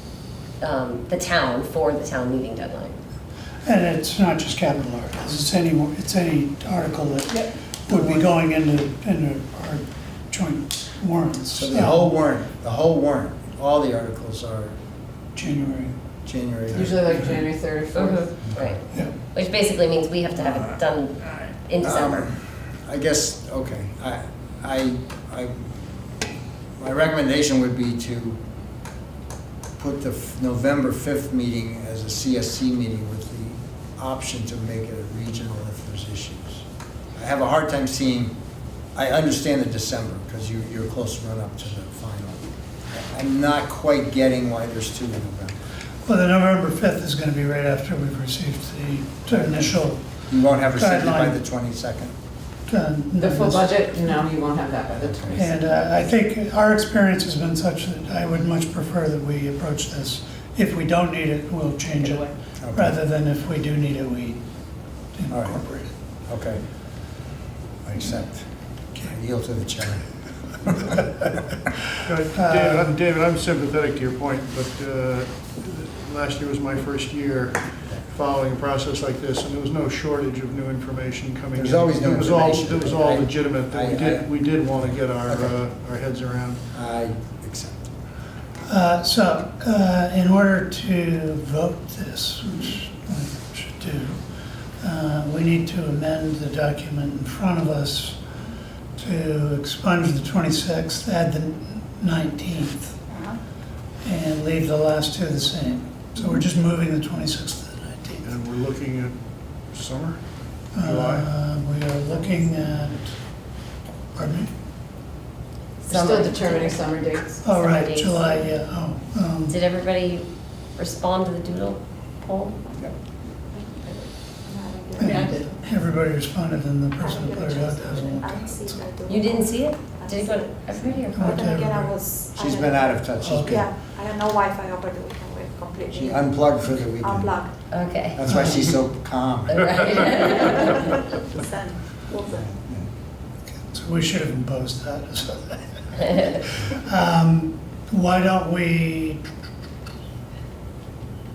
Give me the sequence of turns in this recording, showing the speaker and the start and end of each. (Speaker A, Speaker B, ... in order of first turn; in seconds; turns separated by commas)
Speaker A: 0.6-3.0, Speaker B: 3.6-12.1, Speaker C: 7.3-8.2, Speaker D: 11.5-14.8, Speaker B: 15.3-16.0, Speaker D: 16.2-17.0, Speaker C: 16.7-18.3, Speaker A: 17.9-22.3, Speaker D: 21.8-25.9, Speaker D: 26.8-28.4, Speaker D: 29.8-38.4, Speaker D: 39.0-45.6, Speaker B: 46.0-50.0, Speaker D: 49.3-52.1, Speaker B: 50.8-51.4, Speaker B: 52.7-53.7, Speaker C: 53.1-55.6, Speaker D: 55.0-55.4, Speaker B: 55.4-64.4, Speaker C: 62.0-62.3, Speaker D: 62.6-63.0, Speaker B: 65.1-65.9, Speaker D: 65.3-65.6, Speaker D: 66.3-66.6, Speaker D: 67.8-70.1, Speaker E: 72.1-86.6, Speaker B: 72.3-73.0, Speaker D: 81.5-84.3, Speaker D: 84.9-85.5, Speaker D: 86.7-87.9, Speaker B: 88.7-94.2, Speaker B: 94.8-98.2, Speaker B: 99.0-103.1, Speaker F: 103.1-103.4, Speaker B: 104.0-108.4, Speaker E: 108.2-111.3, Speaker B: 110.7-113.2, Speaker F: 112.2-112.4, Speaker B: 114.2-114.5, Speaker C: 115.8-117.4, Speaker A: 115.8-118.5, Speaker B: 117.4-119.6, Speaker A: 119.5-122.6, Speaker F: 123.6-125.4, Speaker B: 125.0-128.9, Speaker C: 125.0-125.5, Speaker F: 127.0-136.3, Speaker A: 129.1-131.3, Speaker B: 131.1-132.0, Speaker D: 132.3-133.7, Speaker B: 133.2-133.7, Speaker D: 135.9-137.4, Speaker F: 137.0-137.5, Speaker A: 137.7-138.2, Speaker D: 138.1-139.8, Speaker B: 138.3-138.7, Speaker A: 139.5-140.9, Speaker F: 141.2-142.6, Speaker D: 142.3-142.9, Speaker B: 143.5-149.2